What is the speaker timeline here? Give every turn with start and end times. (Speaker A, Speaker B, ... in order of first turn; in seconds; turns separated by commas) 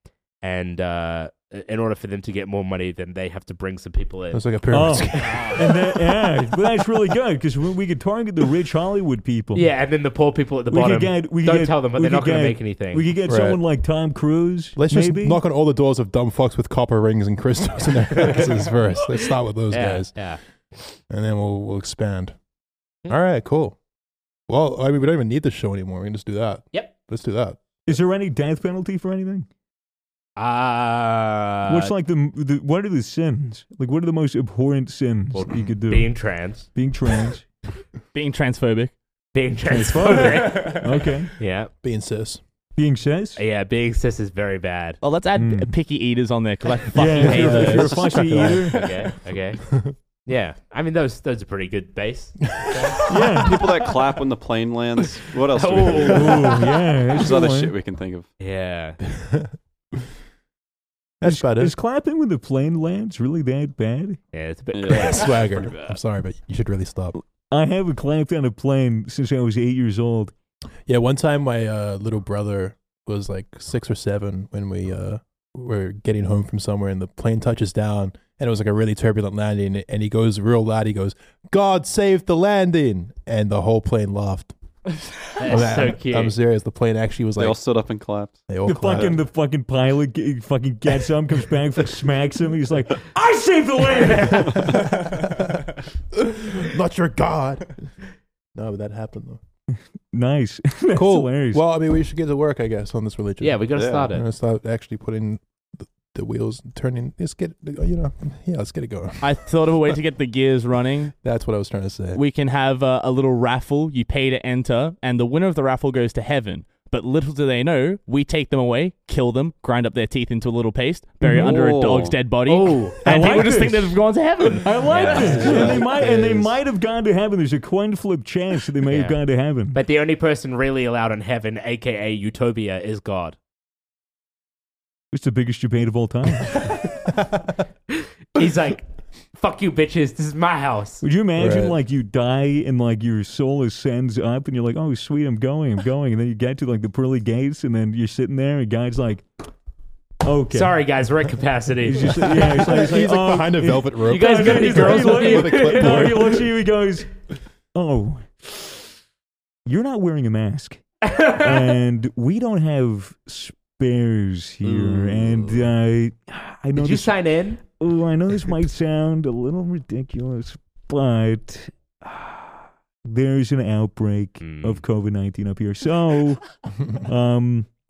Speaker A: 0.4-4.4, Speaker B: 4.3-5.7, Speaker C: 4.7-9.7, Speaker A: 5.1-5.6, Speaker A: 9.5-13.1, Speaker C: 10.7-15.4, Speaker B: 13.2-13.6, Speaker B: 14.8-20.2, Speaker A: 19.7-20.4, Speaker B: 21.1-22.4, Speaker B: 23.1-23.8, Speaker B: 24.5-27.6, Speaker C: 27.9-29.5, Speaker A: 30.4-31.9, Speaker C: 31.7-37.5, Speaker A: 35.8-36.7, Speaker D: 38.1-39.0, Speaker A: 39.3-41.7, Speaker C: 39.6-41.3, Speaker B: 41.8-42.4, Speaker C: 42.8-43.4, Speaker A: 43.4-45.0, Speaker D: 45.0-48.4, Speaker C: 45.3-45.7, Speaker C: 46.9-48.9, Speaker B: 47.2-48.9, Speaker A: 48.7-53.1, Speaker B: 49.7-49.9, Speaker C: 53.1-53.6, Speaker E: 53.4-56.6, Speaker A: 55.5-56.4, Speaker C: 56.0-57.7, Speaker E: 57.1-58.3, Speaker A: 58.4-59.0, Speaker B: 59.1-60.0, Speaker B: 61.2-61.8, Speaker C: 61.2-64.2, Speaker A: 64.3-65.8, Speaker E: 64.7-65.8, Speaker B: 64.9-67.2, Speaker C: 67.5-70.3, Speaker B: 70.9-84.5, Speaker A: 85.3-86.3, Speaker B: 85.4-87.6, Speaker E: 87.4-88.4, Speaker B: 88.5-89.2, Speaker C: 88.7-94.8, Speaker A: 93.9-94.4, Speaker B: 94.5-97.9, Speaker B: 98.5-99.4, Speaker C: 100.1-101.6, Speaker B: 100.9-109.9, Speaker A: 103.4-104.2, Speaker E: 103.7-104.1, Speaker D: 109.2-111.1, Speaker B: 111.2-112.2, Speaker D: 112.1-125.4, Speaker C: 121.2-121.7, Speaker E: 121.2-122.2, Speaker A: 122.5-123.0, Speaker C: 123.0-129.8, Speaker A: 124.9-125.7, Speaker E: 125.1-126.3, Speaker B: 125.8-126.5, Speaker A: 128.8-129.2, Speaker A: 129.7-133.4, Speaker C: 135.1-136.7, Speaker A: 137.9-141.0, Speaker C: 141.0-149.2, Speaker B: 141.3-141.8, Speaker C: 150.2-150.8, Speaker A: 150.5-152.4, Speaker C: 151.9-157.1, Speaker B: 152.2-156.4, Speaker A: 154.1-156.2, Speaker C: 157.7-158.9, Speaker C: 159.7-172.5, Speaker A: 161.0-161.7, Speaker E: 164.7-165.6, Speaker A: 166.8-167.6, Speaker C: 173.0-177.7, Speaker A: 174.4-174.8